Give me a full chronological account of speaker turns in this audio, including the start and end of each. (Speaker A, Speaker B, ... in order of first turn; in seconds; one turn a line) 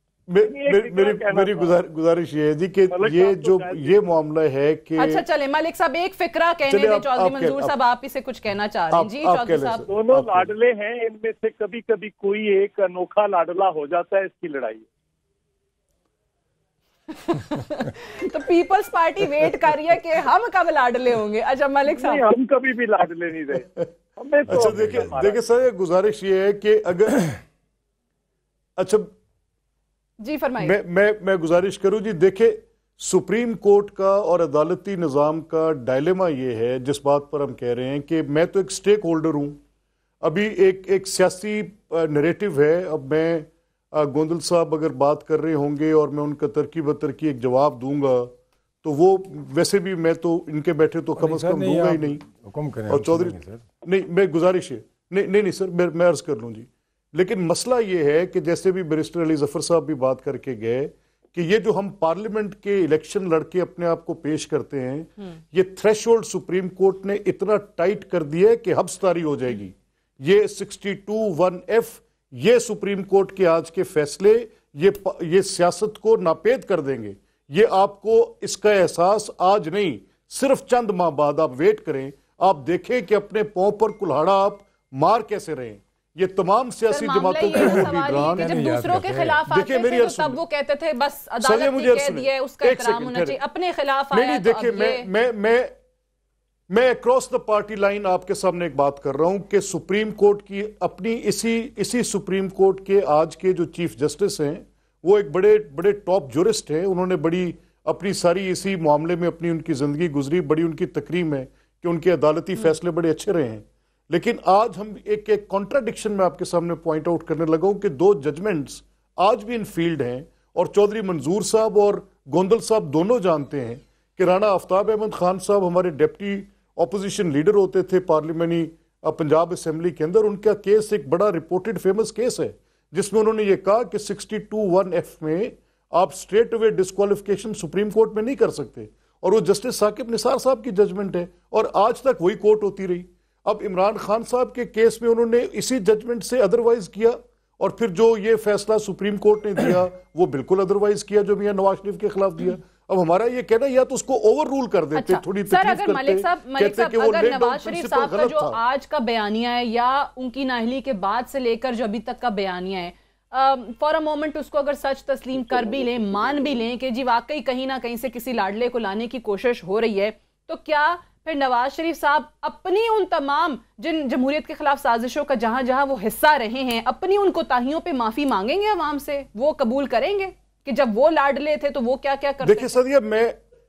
Speaker A: 0.3-5.2
Speaker B: 0.4-1.8
Speaker B: 2.9-4.0
Speaker C: 5.0-9.9
Speaker A: 6.7-7.7
Speaker A: 8.9-10.5
Speaker B: 9.9-14.8
Speaker C: 17.1-22.2
Speaker B: 22.0-25.4
Speaker A: 24.5-27.4
Speaker D: 24.6-25.1
Speaker A: 28.8-29.1
Speaker C: 30.2-30.8
Speaker A: 30.6-39.6
Speaker A: 40.2-52.2
Speaker D: 51.2-53.6
Speaker A: 52.9-88.5
Speaker C: 86.9-95.1
Speaker D: 87.6-89.4
Speaker A: 89.5-90.4
Speaker A: 91.4-93.4
Speaker A: 94.1-95.7
Speaker A: 96.7-158.6
Speaker C: 154.9-182.8
Speaker A: 182.4-183.4